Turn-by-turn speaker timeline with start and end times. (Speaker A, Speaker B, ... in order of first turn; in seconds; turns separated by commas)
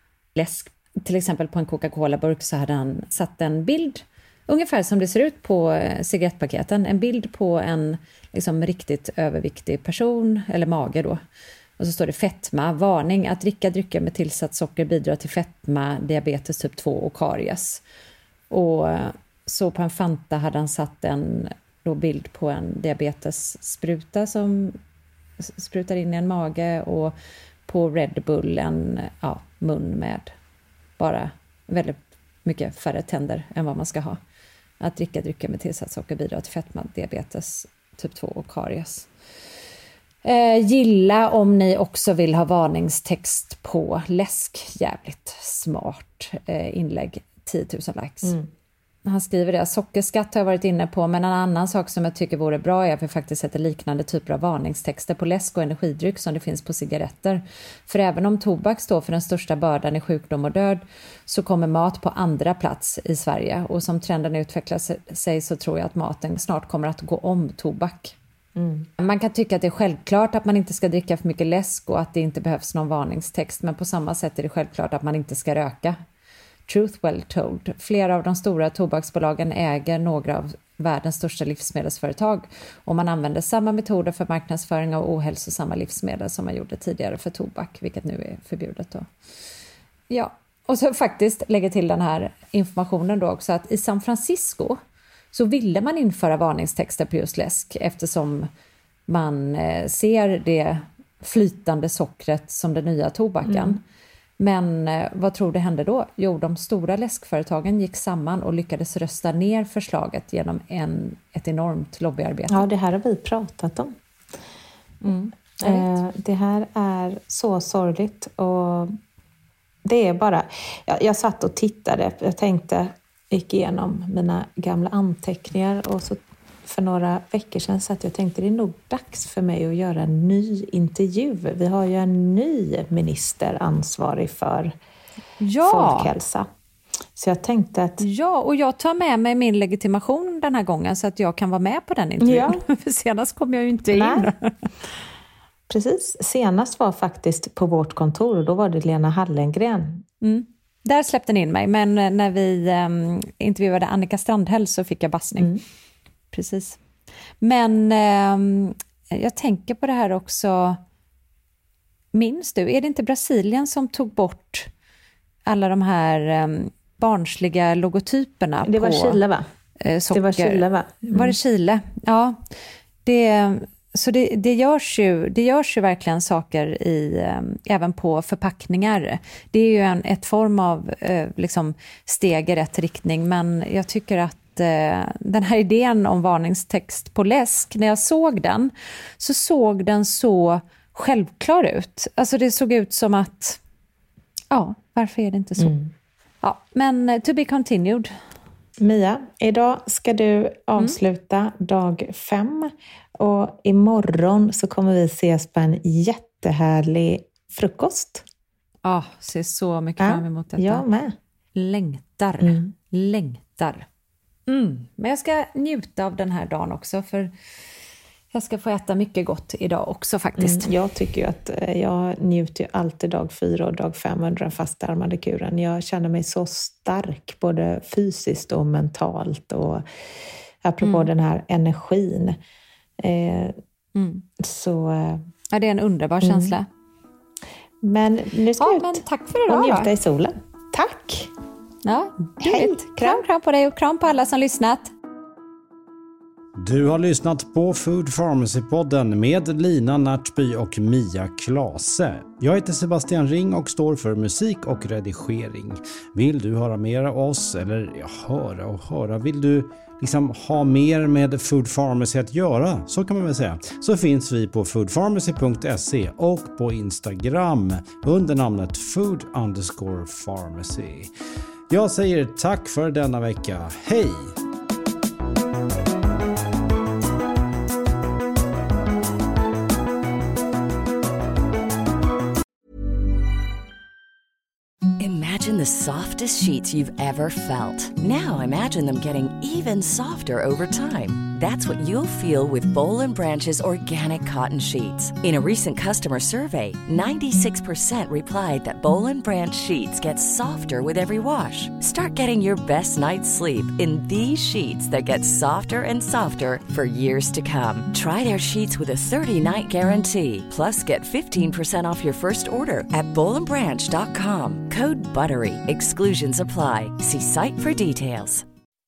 Speaker A: 0.3-11.2, Speaker A: 11.8-17.8, Speaker A: 18.5-24.8, Speaker A: 25.4-27.1, Speaker A: 27.7-30.3, Speaker A: 31.0-34.2, Speaker A: 34.8-39.1, Speaker A: 40.2-48.4, Speaker B: 48.2-48.5, Speaker A: 49.1-68.2, Speaker B: 68.6-68.9, Speaker A: 69.0-76.0, Speaker A: 76.7-89.1, Speaker A: 90.1-94.8, Speaker A: 95.3-98.5, Speaker A: 99.1-103.8, Speaker B: 103.5-103.8, Speaker A: 104.4-112.7, Speaker B: 112.5-113.9, Speaker A: 115.0-115.9, Speaker B: 115.6-119.0, Speaker B: 119.8-134.7, Speaker A: 135.4-136.1, Speaker B: 135.6-136.5, Speaker B: 137.2-138.0, Speaker A: 138.0-144.5, Speaker B: 142.2-142.6, Speaker B: 143.9-144.3, Speaker B: 145.7-150.0, Speaker A: 150.2-155.6, Speaker A: 156.3-156.8, Speaker A: 157.4-160.8, Speaker A: 162.1-164.7, Speaker A: 165.5-169.2, Speaker B: 168.7-169.4, Speaker A: 169.8-172.4, Speaker B: 170.1-171.3, Speaker A: 173.1-193.6, Speaker A: 194.5-195.7, Speaker B: 195.6-195.9, Speaker A: 196.4-198.1, Speaker B: 198.8-208.2, Speaker A: 208.8-210.8, Speaker B: 210.0-211.1, Speaker A: 211.6-213.9, Speaker B: 212.4-212.7, Speaker A: 214.5-217.3, Speaker A: 218.3-220.7, Speaker B: 220.4-229.8, Speaker B: 230.6-232.4, Speaker A: 230.8-231.1, Speaker B: 233.0-233.6, Speaker A: 233.9-234.2, Speaker B: 234.4-235.2, Speaker A: 235.5-236.7, Speaker B: 236.2-236.6, Speaker B: 237.8-241.3, Speaker A: 238.6-239.9, Speaker A: 241.8-244.9, Speaker B: 242.4-243.2, Speaker C: 246.6-271.1, Speaker C: 271.7-274.3, Speaker D: 285.0-318.4